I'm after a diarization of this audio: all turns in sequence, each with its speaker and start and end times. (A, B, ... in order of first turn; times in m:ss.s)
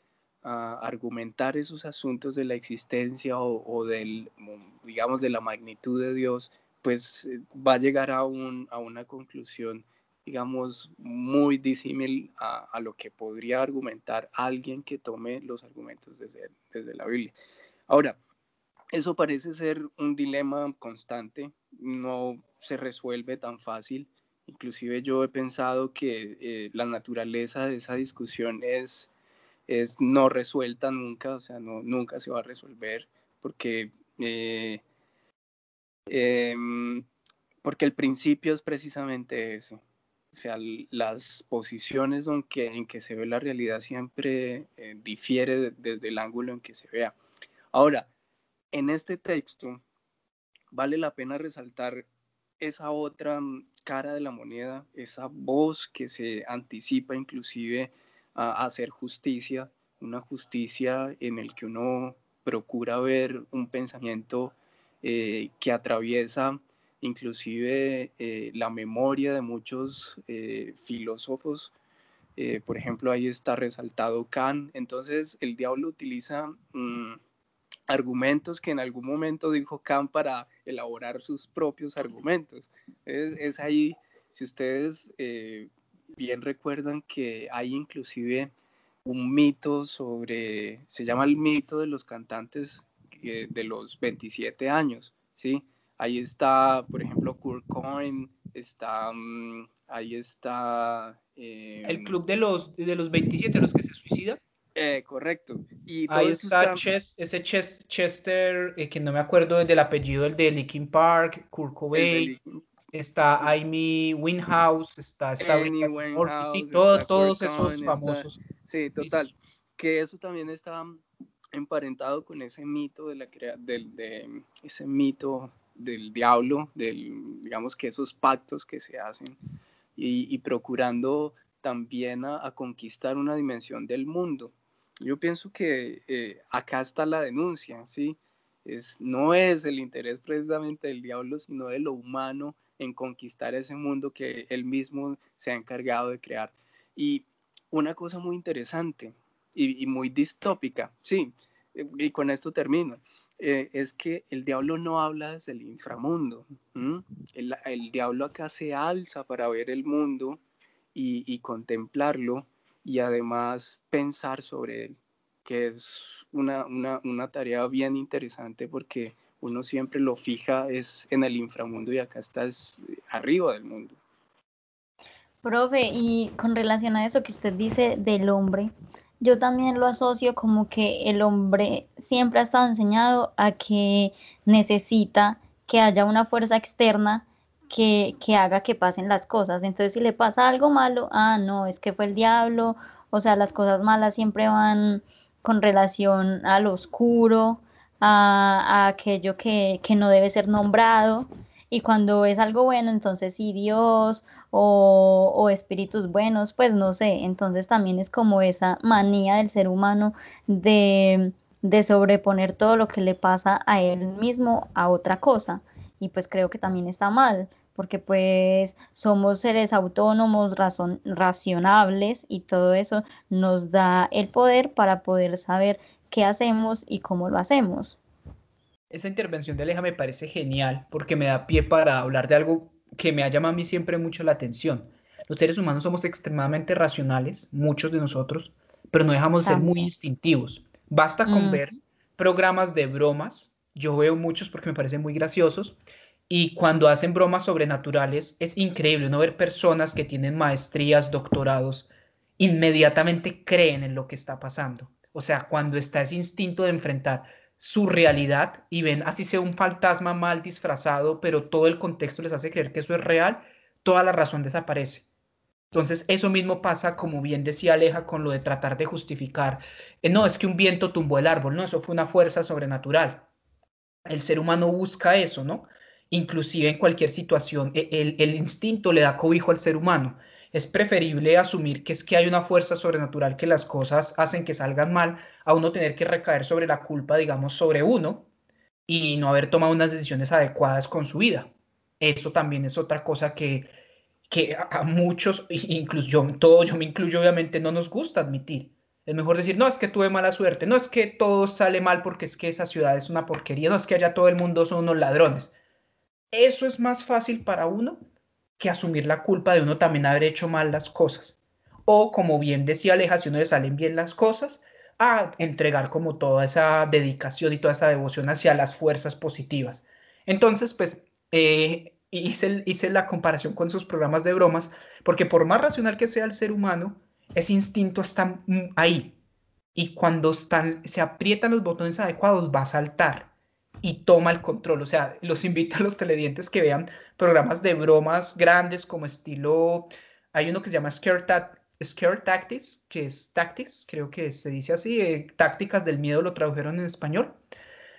0:00.4-0:17.3 A
0:17.9-0:18.2 A
0:18.9-0:29.1 A
0:29.7-0:34.8 A
0:36.1-0:37.0 A
0:37.6-0:39.8 A
0:40.3-0:47.2 A
0:47.7-0:48.1 A
0:48.7-0:49.8 A
0:50.7-0:52.0 A
0:52.6-1:11.7 A
1:12.4-1:17.2 A
1:17.9-1:28.5 A
1:29.0-1:42.2 A
1:41.8-1:44.4 B
1:44.8-1:46.9 A
1:46.1-1:52.3 B
1:51.9-1:52.6 A
1:52.9-1:58.4 B
1:55.4-2:01.0 A
1:59.0-1:59.2 B
2:01.5-2:09.4 A
2:10.0-2:40.4 A
2:41.0-2:54.0 A
2:55.4-2:58.7 C
2:59.2-3:48.0 C
3:48.9-4:05.8 B
3:59.4-3:59.9 C
4:01.2-4:01.8 C
4:06.3-4:25.1 B
4:25.7-4:33.3 B
4:34.1-4:48.3 B
4:48.9-4:53.7 B
4:54.3-5:05.5 B
5:06.3-5:08.0 B
5:08.6-5:29.2 B
5:29.8-5:33.3 B
5:33.8-5:47.4 B